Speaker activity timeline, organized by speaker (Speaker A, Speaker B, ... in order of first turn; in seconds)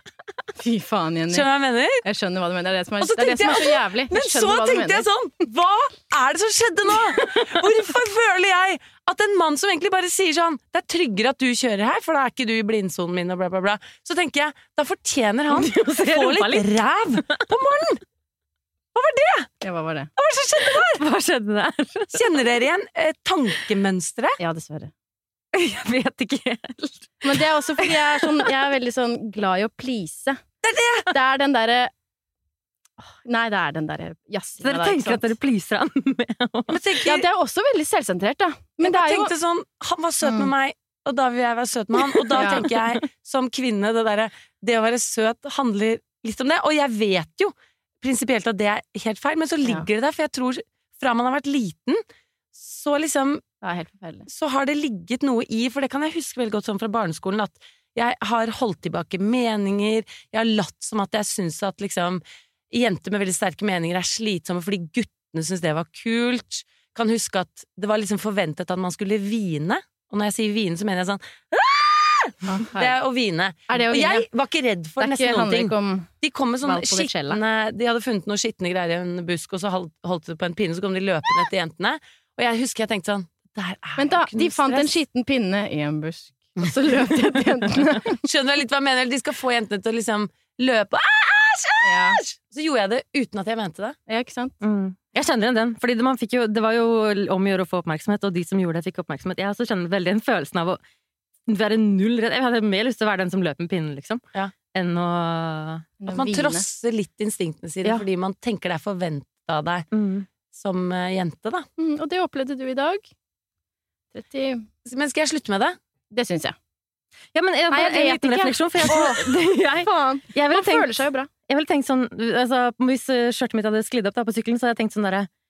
Speaker A: 0.6-1.4, 2.0-5.0, 19.6-20.1, 24.4-24.9, 27.2-30.4, 31.1-31.9, 33.0-35.3, 37.0-39.3, 40.2-40.5, 42.4-42.6, 53.6-54.3, 72.5-72.9, 73.7-74.3, 75.0-76.1, 76.6-77.4, 84.0-88.2, 91.8-92.2, 94.1-94.5, 106.0-106.6, 111.8-113.1, 114.1-114.7, 116.1-116.5, 117.7-121.3
Speaker B: 1.3-2.0, 3.0-18.0, 18.9-19.5, 20.2-21.0, 22.1-24.4, 30.6-31.1, 36.7-37.2, 38.8-52.0, 52.5-53.4, 54.3-85.0, 88.2-94.0, 106.1-109.9, 110.5-111.7, 114.8-115.8
Speaker C: 15.5-16.7, 20.6-22.4, 25.5-28.5, 34.6-36.8, 42.4-42.9, 94.6-100.8, 101.5-104.2, 104.7-105.9, 109.9-110.3, 117.3-120.9, 121.5-125.3